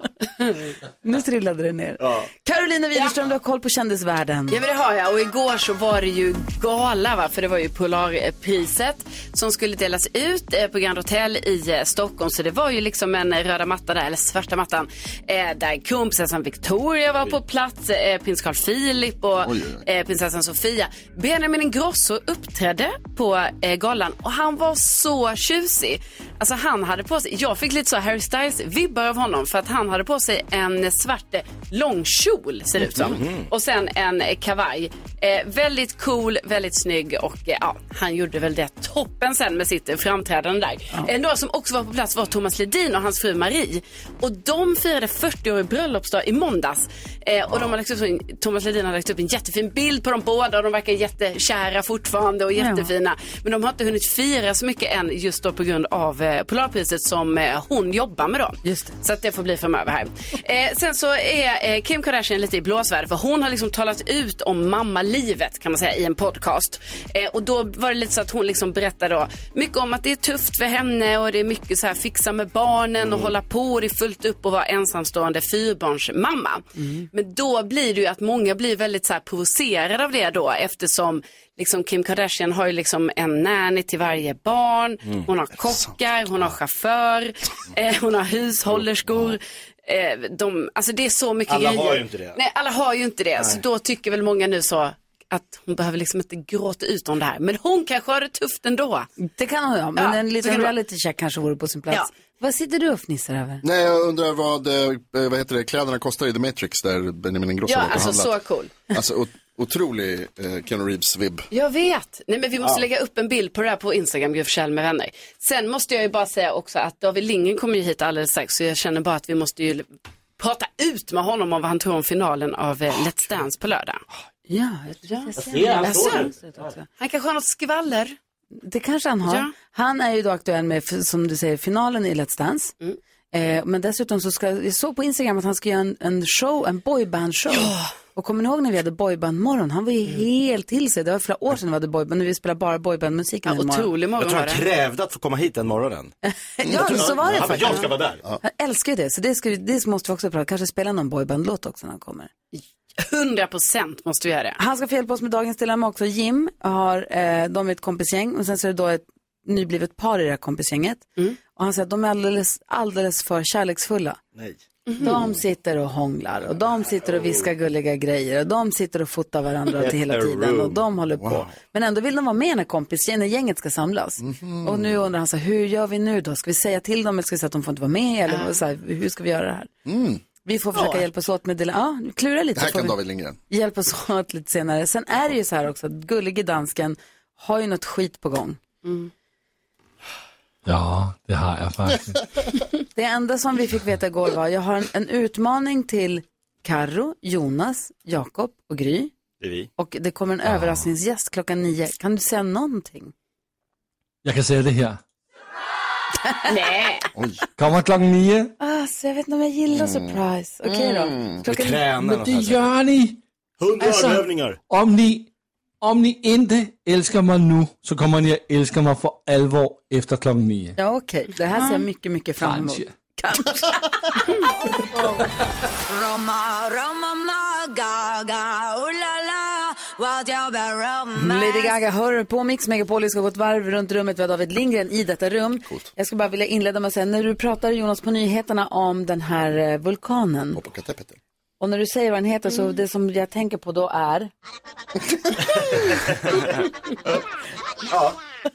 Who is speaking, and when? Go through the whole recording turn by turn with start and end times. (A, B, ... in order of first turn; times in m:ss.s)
0:01.0-0:04.6 A
0:02.0-0:02.3 B
0:04.5-1:39.1 C
0:19.4-0:19.8 D
0:32.8-0:33.5 B
0:52.6-0:52.9 A
0:58.6-0:58.9 A
1:13.0-1:13.3 B
1:16.8-1:17.0 A
1:31.5-1:32.4 B
1:39.2-1:43.6 A
1:40.0-1:40.7 C
1:43.6-1:48.4 D
1:47.7-1:48.7 C
1:48.9-1:51.4 D
1:51.5-1:59.9 C
2:00.4-2:04.0 C
2:04.5-2:06.8 A
2:05.1-2:06.3 C
2:05.4-2:06.7 B
2:07.0-2:08.2 C
2:08.6-2:12.7 A
2:09.2-2:09.5 C
2:13.3-2:23.9 A
2:17.5-2:17.9 C
2:23.4-2:24.6 C
2:24.2-2:26.1 B
2:26.2-2:32.3 A
2:26.7-2:28.2 B
2:33.0-2:34.6 C
2:34.6-2:44.2 A
2:45.0-2:59.7 A
2:46.7-2:47.5 B
2:49.8-2:50.8 B
2:51.2-2:51.5 D
2:54.2-2:55.0 D
2:58.3-2:58.6 C
2:59.8-3:00.2 D
3:00.4-3:03.0 A
3:00.7-3:01.0 C
3:02.6-3:03.4 D
3:03.5-3:08.6 A
3:08.8-3:09.1 C
3:10.6-3:12.2 E
3:12.9-3:19.1 A
3:19.4-3:19.7 B
3:19.8-3:23.1 A
3:20.5-3:20.8 E
3:24.2-3:25.0 E
3:26.5-3:27.1 C
3:27.1-3:27.4 D
3:27.6-3:28.5 E
3:28.6-3:31.8 A
3:29.7-3:31.4 D
3:31.4-3:32.7 B
3:31.9-3:33.2 E
3:33.6-3:34.6 B
3:33.8-3:35.3 E
3:35.8-3:40.7 E
3:40.8-3:44.2 A
3:42.4-3:42.9 E
3:46.0-3:51.1 F
3:51.1-4:00.6 A
4:00.5-4:01.2 D
4:01.6-4:04.3 A
4:07.9-4:08.2 B